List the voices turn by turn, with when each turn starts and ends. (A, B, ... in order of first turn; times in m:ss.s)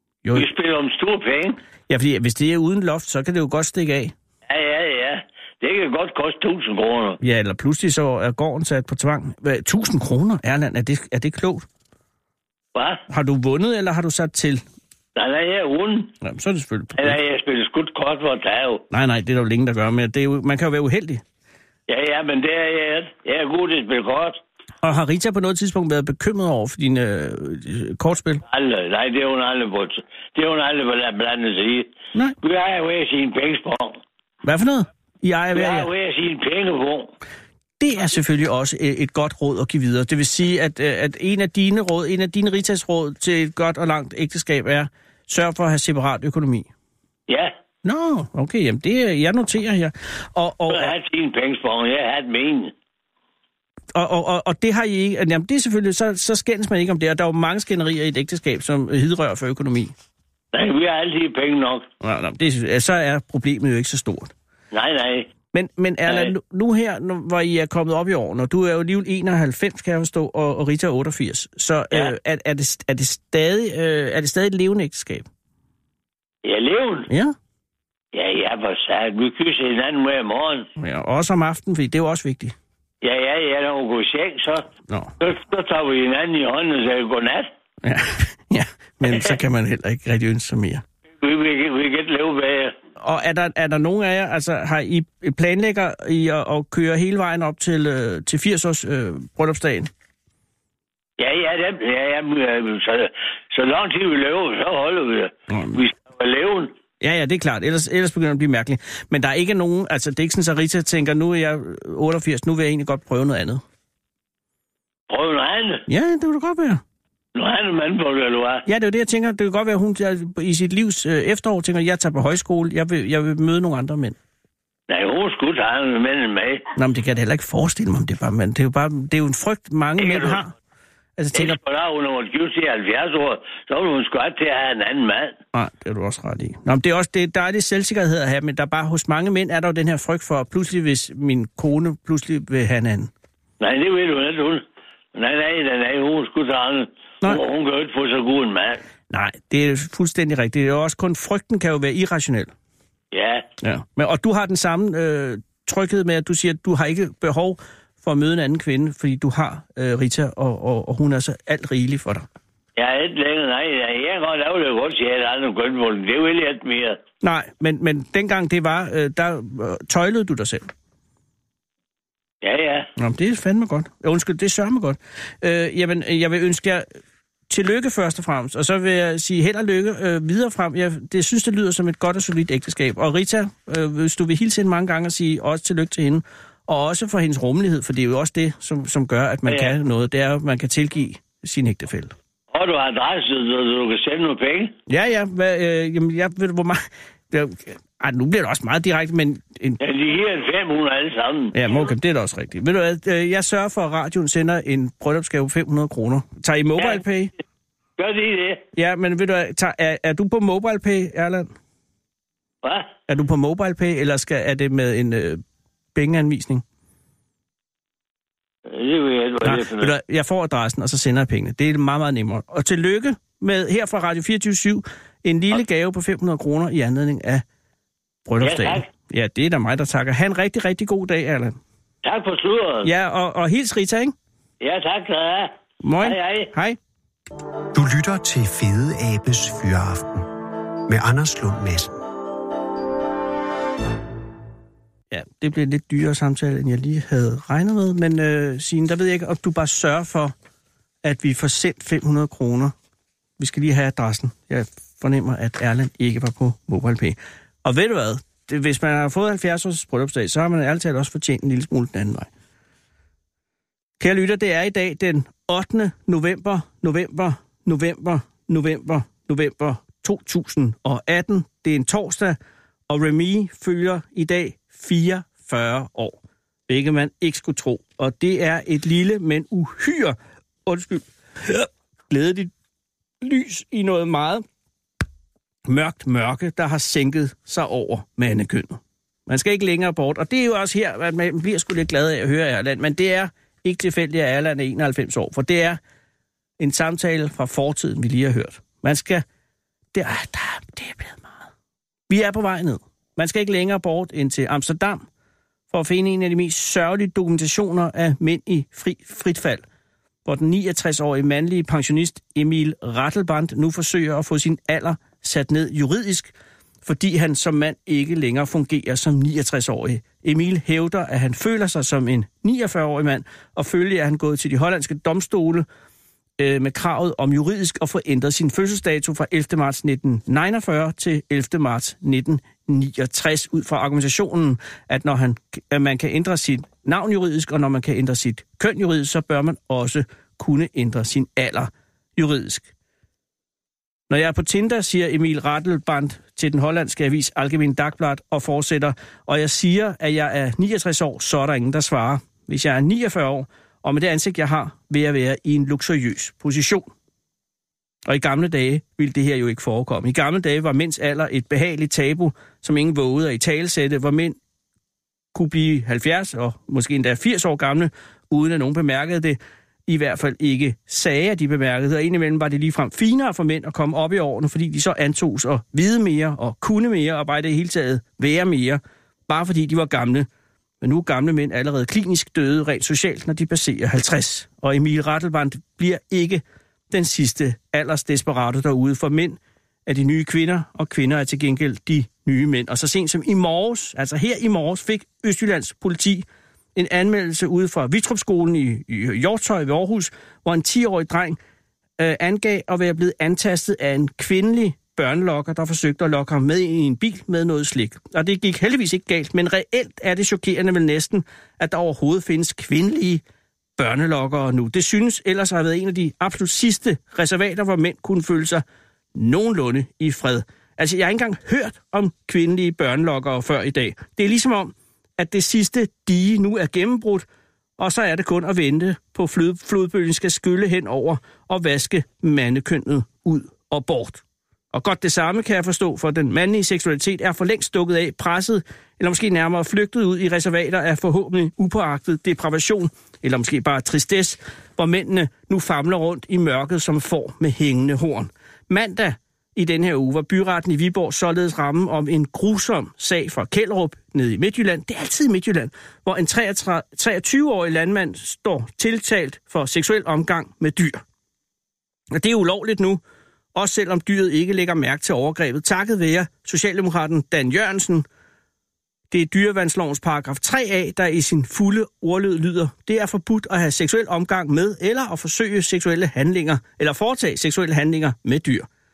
0:00.2-0:00.5 A
0:00.3-0:01.6 B
0:01.9-0:04.1 A
0:04.4-0:07.2 B
0:07.2-0:11.6 A
0:12.7-0:13.0 B
0:13.1-0:14.6 A
0:15.2-0:16.1 B
0:16.2-0:17.2 A
0:17.0-0:18.8 B
0:18.9-0:21.2 A
0:21.9-0:24.4 B
0:24.8-0:28.4 A
0:28.5-0:31.9 B
0:32.4-0:34.0 B
0:34.4-0:35.9 A
0:35.5-0:37.1 B
0:37.8-0:46.7 A
0:47.3-0:47.5 B
0:47.8-0:50.9 A
0:50.7-0:52.7 B
0:53.9-0:59.9 A
1:00.5-1:01.9 B
1:02.0-1:04.3 A
1:04.7-1:05.3 B
1:05.5-1:15.3 A
1:06.1-1:06.3 B
1:16.4-1:17.1 B
1:17.1-1:17.3 A
1:18.1-1:20.7 B
1:20.8-1:22.5 A
1:23.0-1:24.7 B
1:25.2-1:27.5 B
1:27.8-1:30.8 A
1:31.2-1:32.7 B
1:33.0-1:39.9 A
1:41.2-1:46.7 B
1:45.5-1:45.8 A
1:47.0-1:53.6 A
1:55.1-1:55.8 B
1:55.9-1:56.8 A
1:57.3-1:58.6 B
1:58.7-2:04.2 A
2:04.9-2:06.7 B
2:06.8-2:10.5 A
2:10.0-2:10.4 B
2:11.2-2:11.6 A
2:11.3-2:15.4 B
2:15.5-2:23.1 A
2:23.6-2:24.6 B
2:25.1-2:28.8 B
2:29.1-2:32.5 A
2:33.1-2:33.5 B
2:33.6-2:42.3 A
2:42.8-2:47.0 B
2:47.2-2:50.7 A
2:52.4-2:52.9 B
2:53.0-2:56.8 A
2:57.5-3:12.1 A
3:09.5-3:09.7 B
3:12.5-3:14.7 B
3:14.9-3:19.8 A
3:19.8-3:21.6 B
3:21.5-3:27.3 A
3:28.0-3:28.6 B
3:28.7-3:31.5 A
3:32.6-3:32.9 B
3:33.1-3:35.4 A
3:35.9-3:36.6 A
3:38.7-3:39.9 B
3:39.4-3:47.4 A
3:48.2-3:51.6 A
3:48.4-3:48.9 B
3:52.0-3:52.9 B
3:52.8-3:54.1 A
3:54.6-3:56.5 B
3:55.8-3:56.8 A
3:57.7-4:00.3 C
4:00.9-4:02.0 C
4:05.1-4:10.3 A
4:11.0-4:12.7 A
4:13.4-4:22.3 A
4:24.0-4:32.4 A
4:32.9-4:42.5 A
4:43.2-4:44.4 A
4:45.7-4:55.8 A
4:56.6-4:59.2 A
4:59.9-5:01.4 A
5:02.1-5:05.0 A
5:05.7-5:09.6 A
5:10.2-5:16.3 A
5:16.8-5:25.6 A
5:26.4-5:42.7 A
5:44.1-5:56.9 A
5:58.0-6:04.4 A
6:05.3-6:20.3 A
6:20.8-6:41.4 A
6:42.0-6:53.2 A
6:53.8-6:58.6 A
6:59.1-7:07.2 A
7:07.8-7:41.0 A
7:42.1-7:43.0 A
7:43.5-7:48.0 A
7:49.1-7:58.7 A